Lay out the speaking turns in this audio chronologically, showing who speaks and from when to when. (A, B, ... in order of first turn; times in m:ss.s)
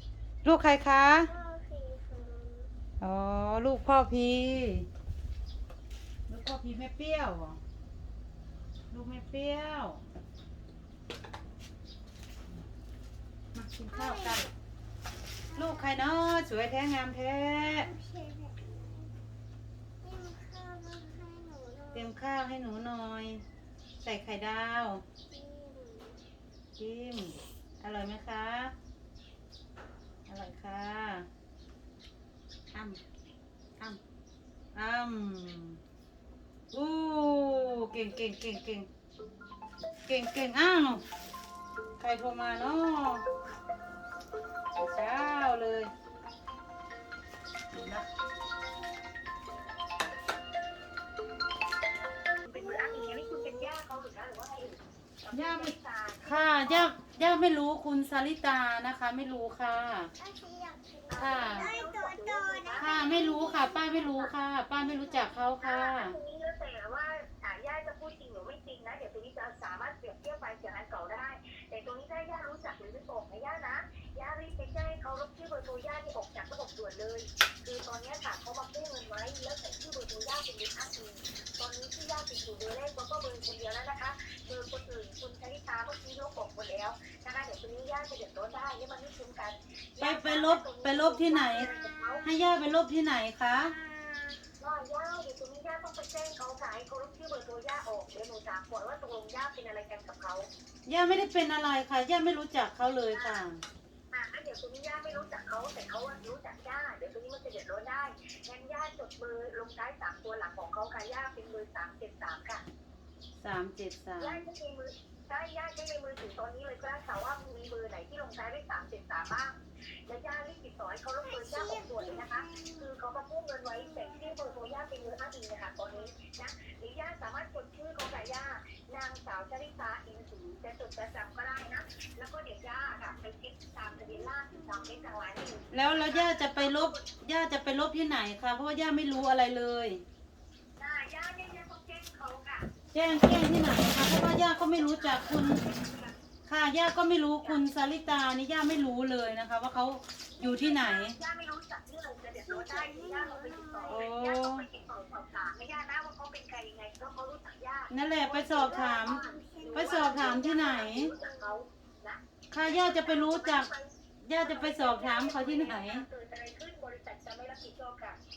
0:00.4-0:01.3 A
0:01.1-0:02.7 B
0:03.0-0:04.9 A
0:06.3-0:07.6 A
0:08.9-0:10.0 A
0:13.5-0:14.4 A
0:13.9-0:14.5 B
0:15.5-0:16.0 B
0:15.6-0:17.9 A
0:17.7-0:19.1 B
0:20.0-0:22.1 B
0:21.9-0:23.4 A
0:24.0-0:25.0 A
0:25.3-0:26.2 B
0:26.8-0:28.7 A
0:30.3-0:31.3 A
0:32.7-0:33.0 A
0:34.7-0:35.8 A
0:36.7-0:38.9 A
0:40.0-0:41.0 A
0:42.0-0:43.2 A
0:44.7-0:45.9 A
0:47.7-0:48.0 A
0:52.5-0:56.9 C
0:52.5-0:53.7 B
0:55.3-1:00.1 A
1:00.2-1:05.5 B
1:01.1-1:03.4 C
1:01.2-1:01.7 A
1:02.8-1:06.2 A
1:05.6-1:32.2 C
1:30.0-1:31.7 A
1:31.4-1:32.3 B
1:32.2-1:33.7 A
1:33.5-1:34.4 B
1:34.6-1:40.5 C
1:40.8-1:43.6 A
1:43.1-1:43.4 C
1:44.1-1:52.6 C
1:53.4-1:54.4 A
1:54.2-1:59.5 C
2:00.0-2:17.1 C
2:01.2-2:02.9 B
2:03.6-2:04.7 B
2:14.4-2:15.1 B
2:15.7-2:20.0 A
2:20.8-2:22.7 C
2:22.9-2:25.6 A
2:24.4-2:26.1 C
2:26.5-2:31.2 A
2:30.4-2:48.2 C
2:32.4-2:34.1 B
2:33.9-2:34.6 A
2:37.9-2:39.2 A
2:38.4-2:41.6 B
2:39.7-2:41.1 A
2:42.5-2:43.7 A
2:44.2-2:46.0 A